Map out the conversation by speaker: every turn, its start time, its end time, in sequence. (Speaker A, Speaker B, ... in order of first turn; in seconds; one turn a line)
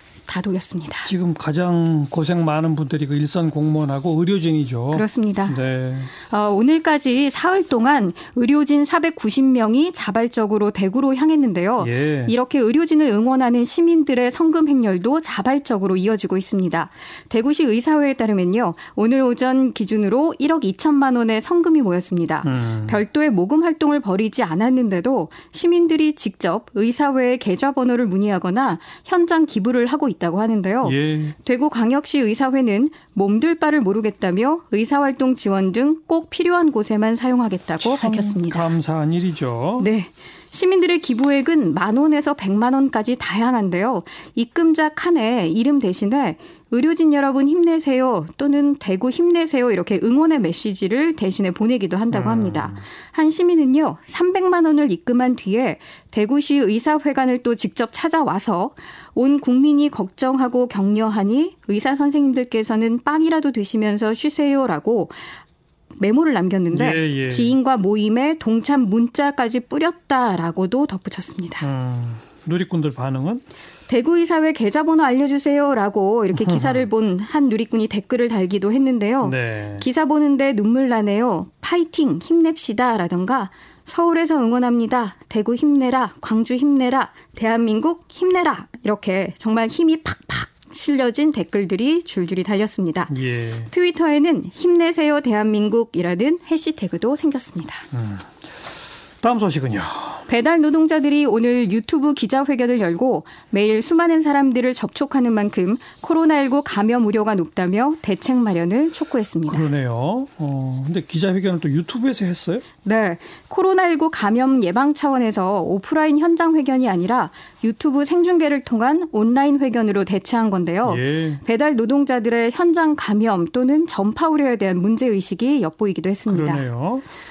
Speaker A: 0.3-1.1
Speaker B: 1.0-6.1
Speaker A: 4.9-5.6
Speaker A: 6.2-38.7
Speaker B: 11.8-12.3
Speaker B: 22.4-23.0
Speaker B: 30.8-31.4
Speaker B: 37.8-39.9
Speaker A: 39.8-65.2
Speaker B: 52.1-52.8
Speaker A: 66.0-71.7
Speaker B: 66.7-67.5
Speaker B: 71.6-73.4
Speaker A: 73.9-93.1
Speaker B: 76.3-76.8
Speaker B: 79.2-79.8
Speaker B: 93.1-93.7
Speaker A: 93.7-97.8
Speaker B: 97.9-98.3
Speaker B: 99.2-100.2
Speaker A: 100.3-109.7
Speaker B: 109.5-112.6
Speaker A: 112.8-126.6
Speaker B: 120.8-121.4
Speaker B: 126.3-127.0